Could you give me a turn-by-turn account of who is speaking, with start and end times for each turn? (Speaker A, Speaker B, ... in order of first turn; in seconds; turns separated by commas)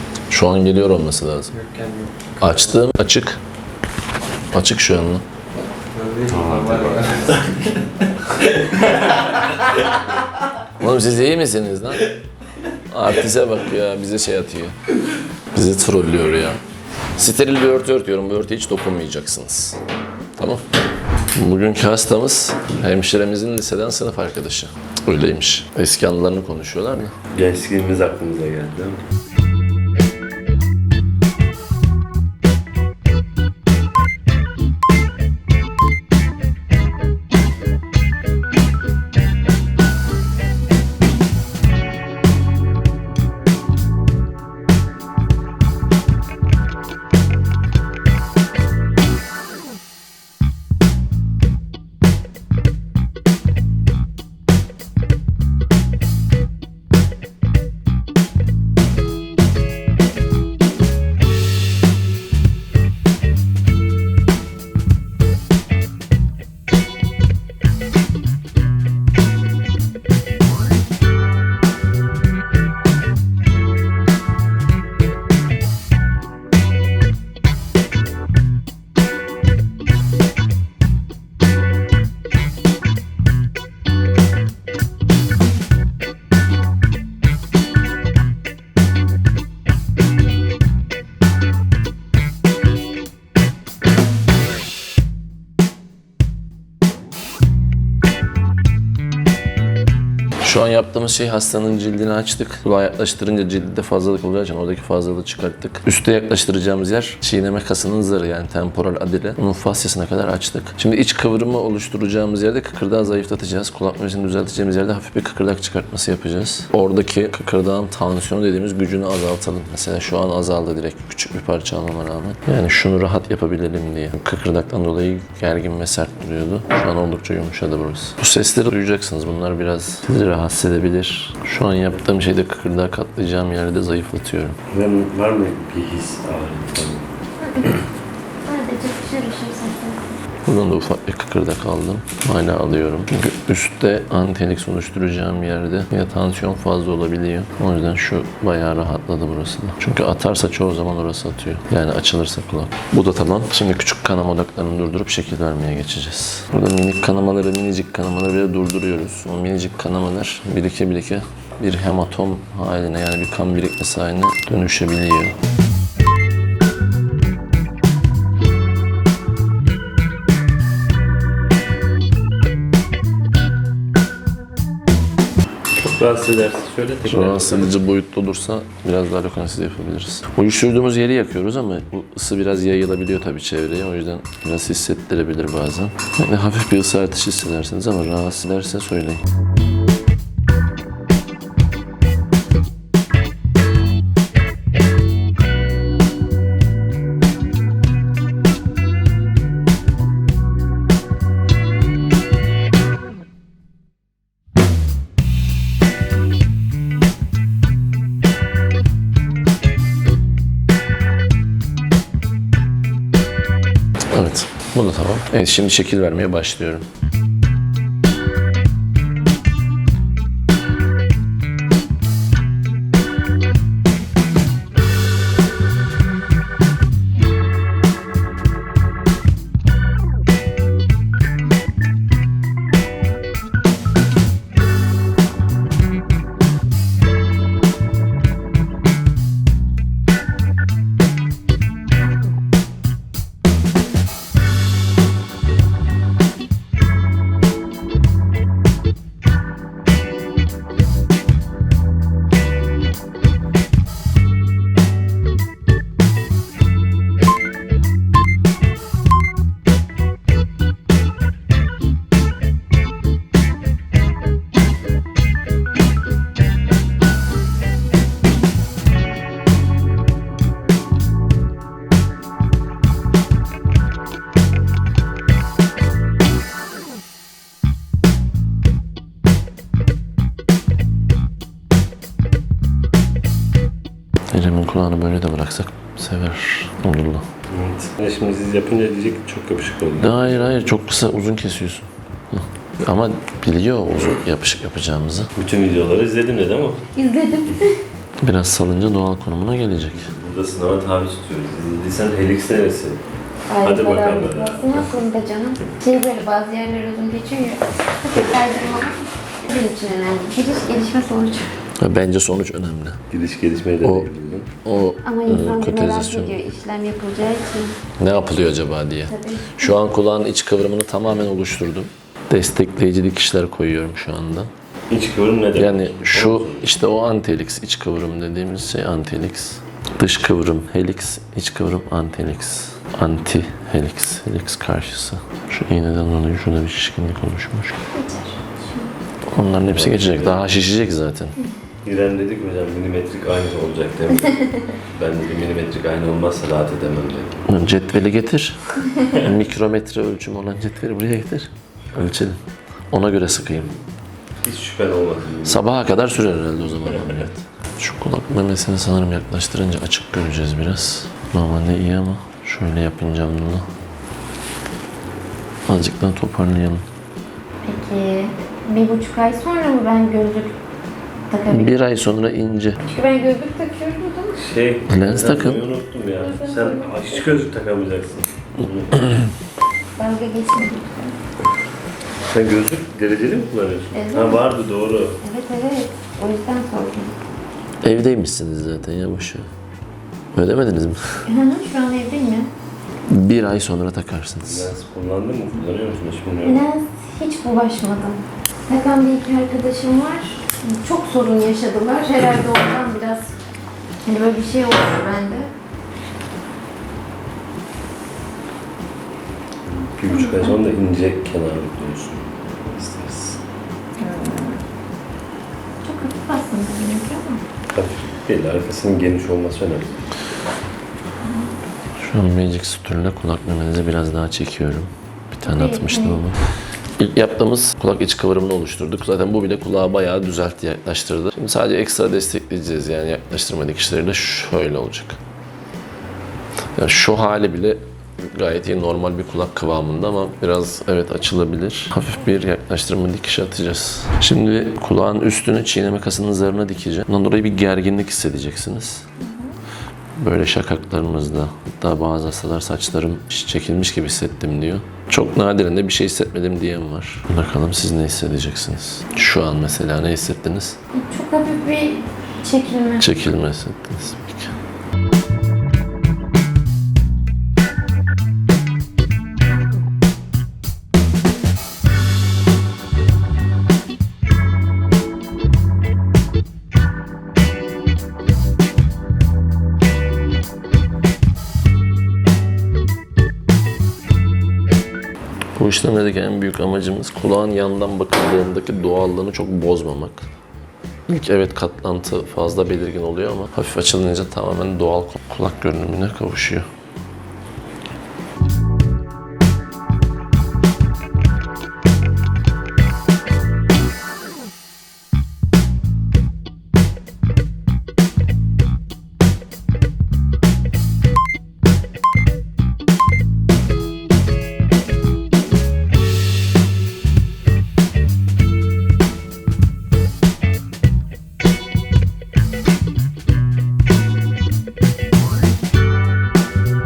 Speaker A: 0.3-1.5, Speaker B: 1.5-2.5, Speaker A: 2.4-3.4, Speaker A: 4.5-5.2, Speaker B: 5.9-7.7, Speaker C: 6.3-7.5, Speaker A: 10.8-12.1, Speaker A: 12.9-14.8, Speaker A: 15.5-16.6, Speaker A: 17.1-19.8, Speaker A: 20.4-20.6, Speaker A: 21.3-27.1, Speaker C: 27.3-29.0, Speaker A: 100.4-134.6, Speaker C: 134.7-137.1, Speaker D: 137.4-137.8, Speaker D: 138.4-140.1, Speaker A: 140.4-165.4, Speaker C: 175.8-177.7, Speaker A: 177.0-189.2, Speaker A: 214.1-216.9, Speaker A: 284.3-287.3, Speaker C: 287.5-290.5, Speaker A: 290.0-295.3, Speaker C: 295.4-296.9, Speaker D: 296.9-297.8, Speaker A: 298.2-300.1, Speaker C: 300.0-303.0, Speaker D: 303.5-311.5, Speaker C: 303.6-304.9, Speaker A: 311.8-313.0, Speaker C: 313.1-314.5, Speaker A: 313.8-314.1, Speaker A: 314.6-316.4, Speaker D: 315.0-317.8, Speaker A: 318.0-324.5, Speaker D: 319.1-319.7, Speaker C: 324.9-326.6, Speaker A: 325.6-337.8, Speaker D: 337.9-338.9, Speaker A: 339.2-341.4, Speaker C: 339.7-340.4, Speaker C: 341.8-347.4, Speaker D: 344.4-344.7, Speaker A: 347.5-353.7, Speaker C: 354.4-355.8, Speaker A: 355.4-363.6, Speaker C: 356.8-357.2, Speaker A: 365.7-366.8, Speaker D: 367.6-370.6, Speaker D: 371.3-371.7, Speaker A: 371.5-372.8, Speaker D: 372.8-374.4, Speaker C: 374.4-379.1, Speaker A: 374.9-375.6, Speaker D: 376.2-377.2, Speaker D: 379.9-381.1, Speaker C: 382.3-385.2, Speaker D: 383.9-384.5, Speaker D: 385.2-387.1, Speaker A: 387.8-389.5, Speaker A: 390.3-391.2, Speaker D: 391.3-392.5, Speaker A: 393.1-394.7, Speaker C: 394.4-396.6, Speaker D: 396.4-403.3, Speaker D: 404.0-405.5, Speaker C: 409.7-413.4, Speaker D: 410.1-410.5, Speaker D: 414.0-414.6, Speaker D: 415.8-417.4, Speaker C: 417.7-420.0, Speaker A: 422.0-426.4, Speaker D: 425.5-426.2, Speaker A: 427.0-435.2, Speaker A: 436.8-449.0, Speaker D: 449.2-449.6, Speaker A: 450.2-460.8, Speaker D: 460.9-463.0, Speaker A: 463.0-464.5, Speaker A: 485.6-490.3, Speaker A: 491.1-496.7